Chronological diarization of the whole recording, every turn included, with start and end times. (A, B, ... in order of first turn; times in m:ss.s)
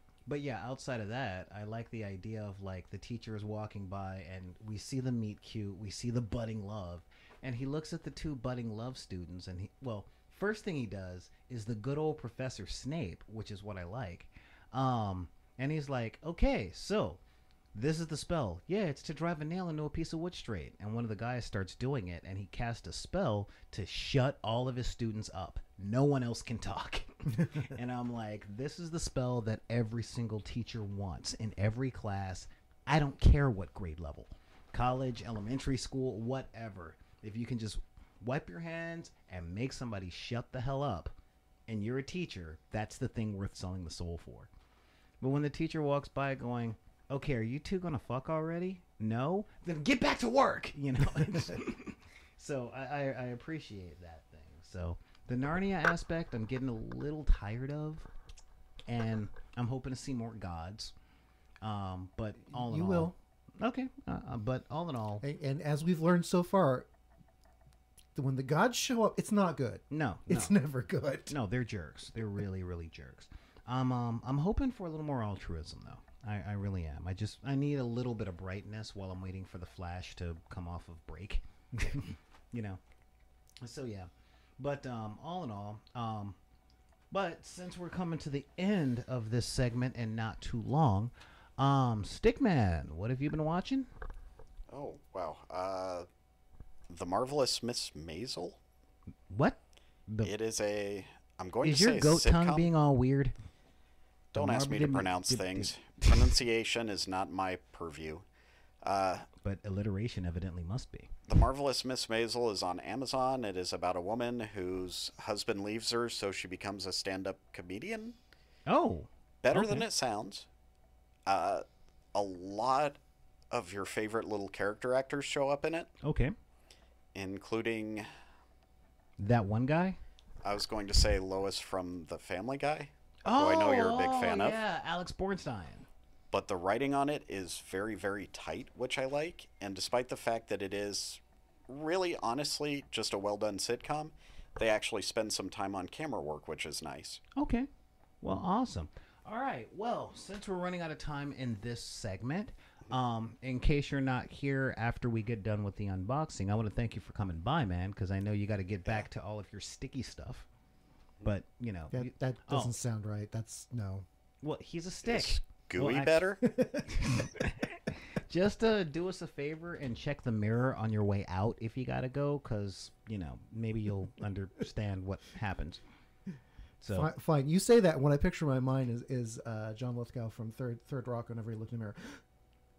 0:00.3-0:17.2 A
0:17.7-0:41.1 A
0:41.7-0:44.5 A
0:45.2-0:58.1 A
0:58.9-1:00.9 A
1:01.6-1:05.2 A
1:02.5-1:03.1 B
1:05.2-1:06.9 B
1:08.1-1:11.3 B
1:09.9-1:10.5 A
1:11.3-1:22.8 A
1:23.6-1:26.4 A
1:27.1-1:33.9 A
1:34.7-1:36.1 C
1:36.9-1:38.6 C
1:39.3-1:40.3 A
1:40.2-1:42.7 C
1:41.6-1:43.3 A
1:44.3-1:46.2 A
1:44.3-1:48.2 C
1:48.8-1:49.3 C
1:49.4-1:51.1 A
1:51.3-1:58.2 C
1:58.7-1:59.8 A
1:59.4-2:00.5 C
2:01.3-2:03.0 C
2:03.5-2:05.9 C
2:06.0-2:06.3 A
2:07.1-2:08.1 C
2:09.2-2:10.0 A
2:10.4-2:14.6 C
2:13.2-2:15.9 A
2:16.3-2:27.2 C
2:27.4-2:27.7 A
2:28.2-2:40.5 A
2:41.2-2:42.7 A
2:41.9-2:44.0 B
2:44.4-2:46.3 A
2:45.0-2:46.4 C
2:46.4-2:47.2 B
2:46.9-2:55.8 A
2:56.8-2:57.1 A
2:56.9-3:02.2 B